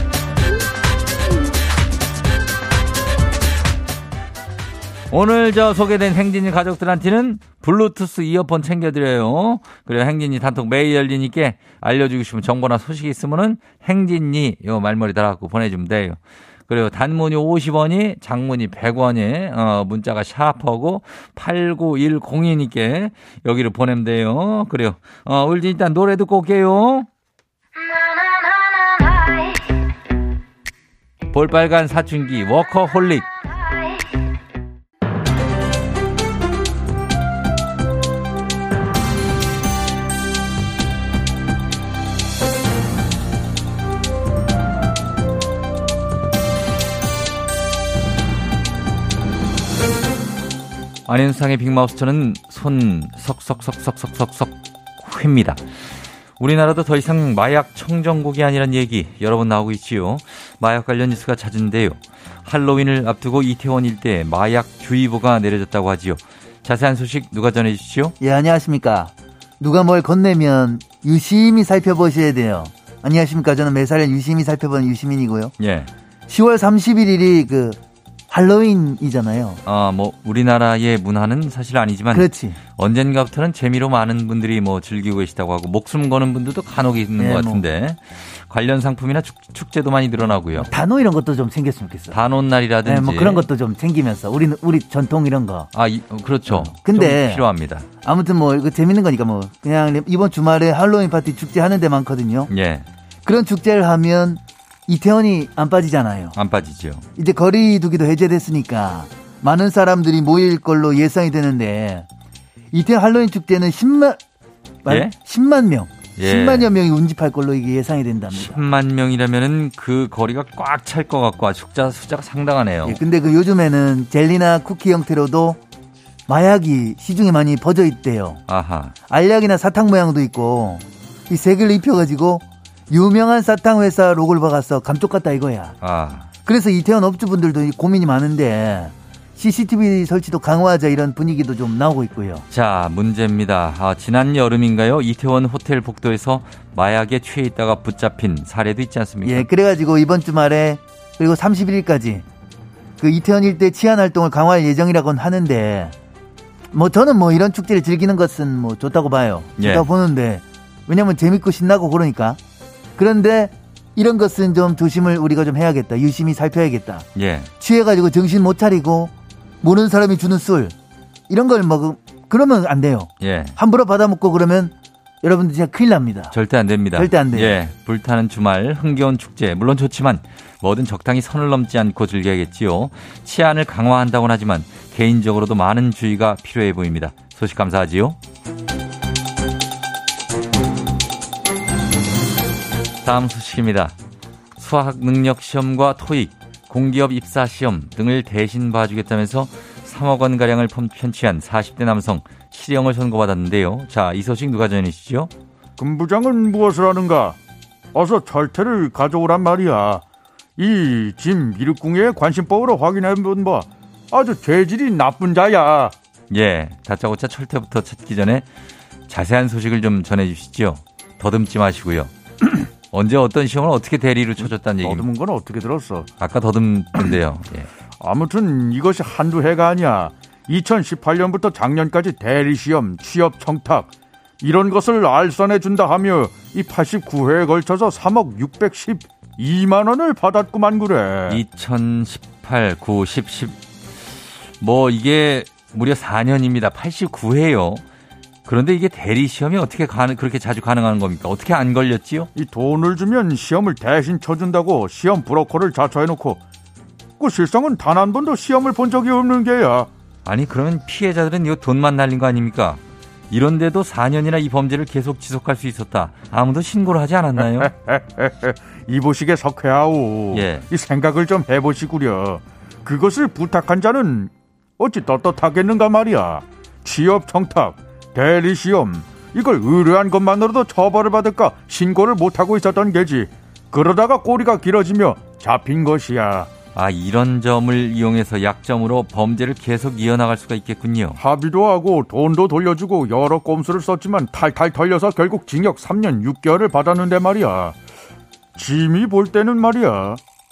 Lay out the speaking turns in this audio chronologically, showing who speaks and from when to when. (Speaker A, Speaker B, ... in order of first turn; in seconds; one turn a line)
Speaker A: 5.1-27.1
Speaker A: 31.3-33.3
Speaker A: 51.1-55.6
Speaker A: 56.4-68.2
Speaker B: 68.2-75.5
Speaker A: 75.6-75.9
Speaker B: 76.3-79.6
Speaker A: 79.7-82.3
Speaker B: 82.1-82.6
Speaker A: 82.8-90.7
Speaker B: 87.2-87.6
Speaker B: 90.6-92.2
Speaker A: 92.1-93.4
Speaker B: 92.8-95.7
Speaker A: 95.7-97.9
Speaker B: 96.5-97.5
Speaker B: 98.0-102.5
Speaker A: 102.5-102.8
Speaker B: 103.2-106.3
Speaker A: 106.3-107.1
Speaker B: 107.2-112.1
Speaker B: 112.7-114.2
Speaker B: 114.8-118.6
Speaker A: 114.9-115.1
Speaker A: 116.2-116.7
Speaker A: 118.3-123.0
Speaker B: 122.8-125.6
Speaker B: 126.3-128.4
Speaker A: 128.5-128.9
Speaker B: 129.1-135.8
Speaker A: 135.8-136.3
Speaker B: 136.4-142.5
Speaker A: 142.5-149.5
Speaker B: 149.2-152.2
Speaker B: 153.0-155.9
Speaker B: 156.7-162.4
Speaker A: 159.6-159.8
Speaker B: 163.0-167.1
Speaker A: 167.2-167.5
Speaker B: 167.6-170.7
Speaker B: 171.3-176.3
Speaker A: 173.2-173.6
Speaker A: 176.3-188.2
Speaker B: 177.0-177.6
Speaker A: 193.0-193.9
Speaker A: 194.6-205.3
Speaker C: 205.8-207.4
Speaker C: 207.9-210.0
Speaker C: 210.6-215.9
Speaker A: 216.3-218.5
Speaker A: 219.1-225.1
Speaker C: 224.8-226.1
Speaker A: 226.2-227.7
Speaker C: 228.0-233.9
Speaker C: 234.4-241.4
Speaker A: 241.3-243.6
Speaker A: 244.6-247.8
Speaker A: 248.5-252.3
Speaker C: 252.3-256.4
Speaker C: 257.2-259.9
Speaker A: 260.3-267.7
Speaker C: 267.4-286.5
Speaker A: 270.3-270.6
Speaker A: 286.8-291.2
Speaker C: 291.2-297.8
Speaker C: 298.6-300.2